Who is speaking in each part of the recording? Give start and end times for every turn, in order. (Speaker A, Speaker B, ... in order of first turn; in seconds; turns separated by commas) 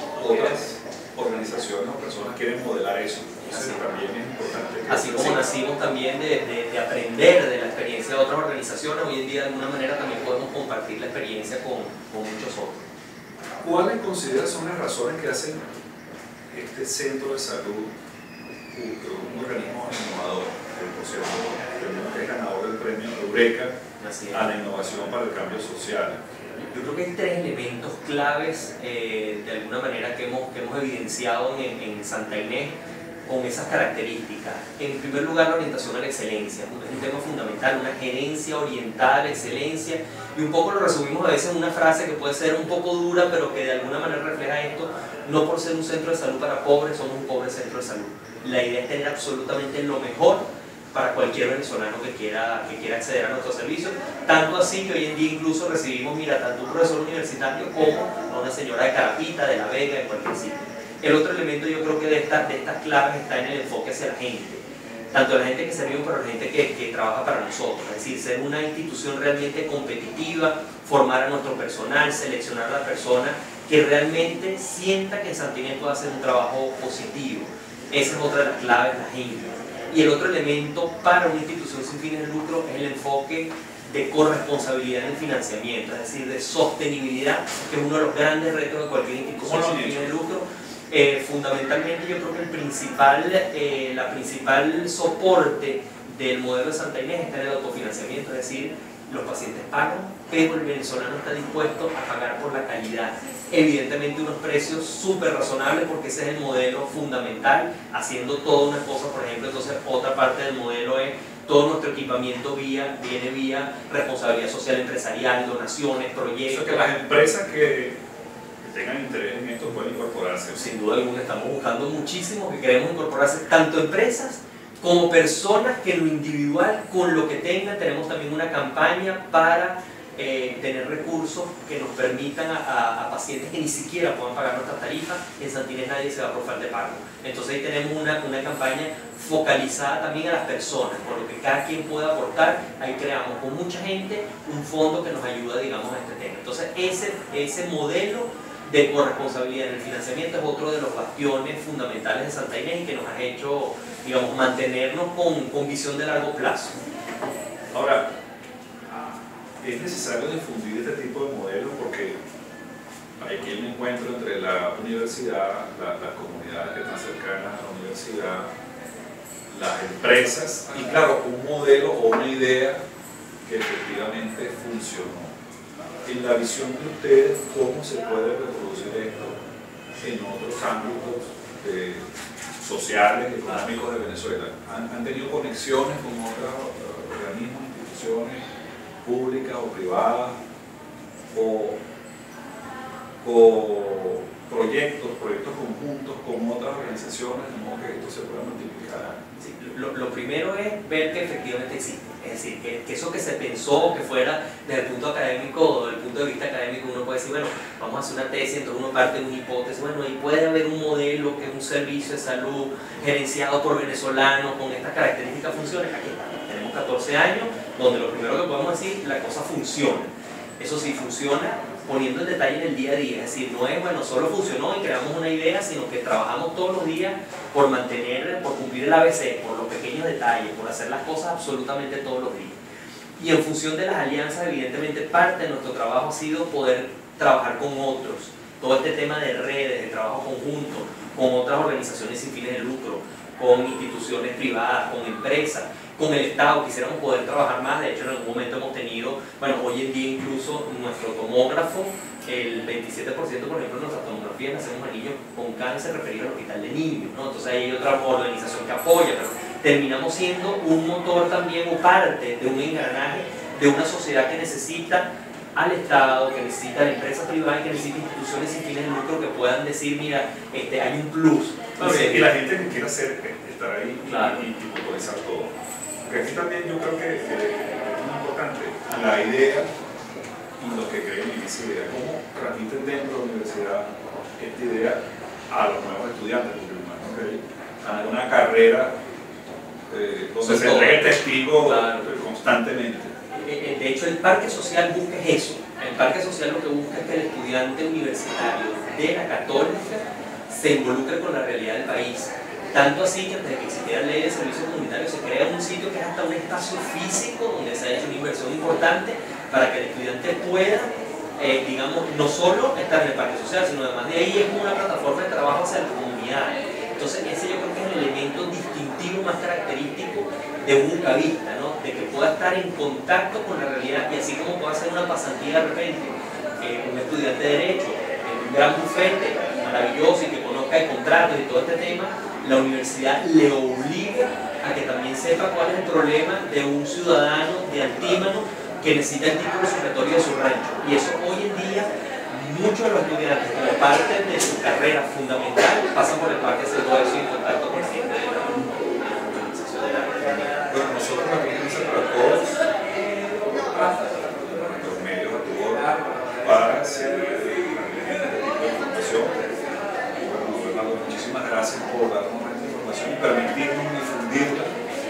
Speaker A: 0.2-5.4, Speaker B: 3.5-3.8, Speaker B: 4.9-12.9, Speaker A: 13.6-15.7, Speaker A: 16.5-17.9, Speaker A: 18.7-23.7, Speaker B: 24.0-24.5, Speaker A: 24.3-26.2, Speaker B: 26.6-32.8, Speaker B: 33.3-116.9, Speaker A: 89.4-90.2, Speaker A: 116.5-118.0, Speaker A: 118.6-120.6, Speaker B: 120.5-156.8, Speaker A: 157.7-158.1, Speaker A: 159.6-162.2, Speaker A: 163.2-168.5, Speaker A: 169.5-172.8, Speaker A: 173.4-175.3, Speaker A: 176.1-179.4, Speaker A: 179.9-182.1, Speaker A: 182.6-188.4, Speaker A: 189.0-190.4, Speaker A: 191.3-191.8, Speaker A: 193.2-199.2, Speaker B: 199.4-232.6, Speaker B: 233.2-272.2, Speaker A: 271.8-275.5, Speaker B: 274.1-274.4, Speaker A: 276.1-279.7, Speaker A: 280.6-288.9, Speaker A: 289.9-293.1, Speaker B: 290.4-291.1, Speaker B: 291.6-292.1, Speaker B: 293.3-350.6, Speaker A: 350.7-359.4, Speaker A: 360.1-364.8